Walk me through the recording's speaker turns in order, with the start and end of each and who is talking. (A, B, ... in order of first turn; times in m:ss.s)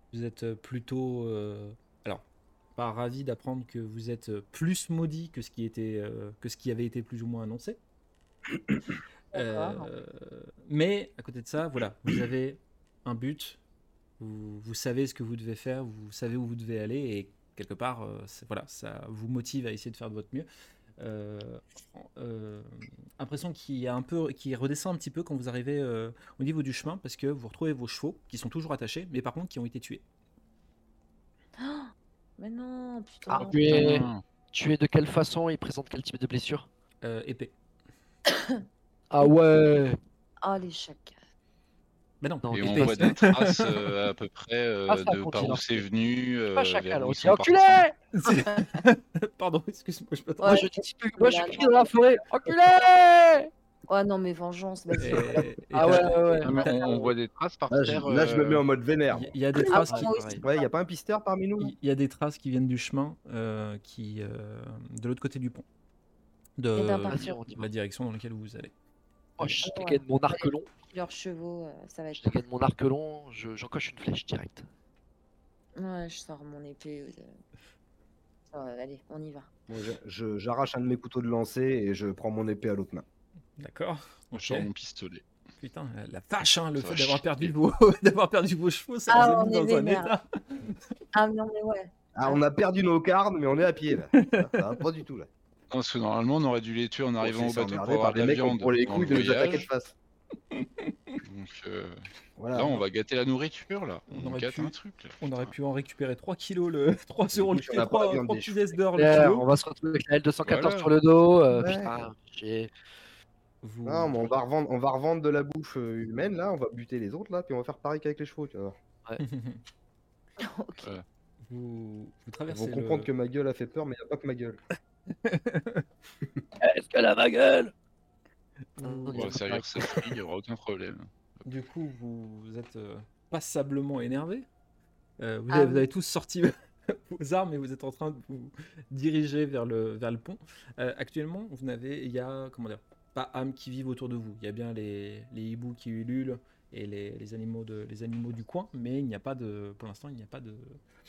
0:00.1-0:02.2 A
0:02.8-0:07.8 A
0:09.3-0:13.6 A
0:09.3-0:09.9 B
0:14.2-0:20.5 A
0:21.0-0:30.0 A
0:31.6-0:34.0 B
0:33.3-0:36.7 C
0:33.6-0:34.2 D
0:37.0-0:37.5 A
0:38.3-0:38.6 B
0:39.1-0:40.0 C
0:40.4-0:41.2 B
0:42.2-0:43.9 A
0:42.4-0:43.1 C
0:42.5-0:47.9 D
0:44.9-0:45.8 C
0:46.5-0:48.0 C
0:48.1-0:50.7 A
0:50.4-0:52.2 B
0:50.5-0:53.5 C
0:53.9-0:55.5 B
0:55.0-0:57.1 A
0:55.7-0:56.6 C
0:56.3-0:57.1 B
0:56.4-0:58.6 D
0:57.7-0:59.4 E
0:59.1-1:00.4 A
0:59.6-1:00.7 B
0:59.8-1:00.4 C
1:00.4-1:01.7 E
1:01.6-1:05.6 A
1:06.6-1:08.7 A
1:06.8-1:07.4 B
1:07.1-1:07.7 C
1:09.4-1:10.7 C
1:09.6-1:12.4 B
1:12.2-1:14.7 C
1:15.8-1:17.3 B
1:18.5-1:19.5 B
1:19.7-1:23.0 E
1:23.6-1:24.7 A
1:24.3-1:25.2 D
1:25.6-1:30.8 A
1:26.8-1:27.5 D
1:29.1-1:30.1 B
1:31.1-1:32.4 B
1:32.2-1:35.3 E
1:34.1-1:34.6 A
1:35.7-1:39.7 D
1:37.2-1:40.0 E
1:40.6-1:41.1 A
1:41.2-1:45.5 D
1:42.4-1:42.8 E
1:44.1-1:49.5 A
1:47.4-1:48.8 E
1:49.0-1:52.7 C
1:50.4-1:50.9 D
1:51.5-1:52.1 E
1:53.6-1:54.3 A
1:53.8-1:58.8 E
1:59.2-1:59.6 A
2:00.4-2:00.9 B
2:01.4-2:03.1 A
2:02.5-2:04.6 E
2:05.2-2:05.9 A
2:06.6-2:07.7 C
2:08.8-2:09.4 A
2:08.8-2:10.1 C
2:09.1-2:11.1 D
2:11.4-2:14.5 A
2:15.2-2:30.8 A
2:15.5-2:15.9 B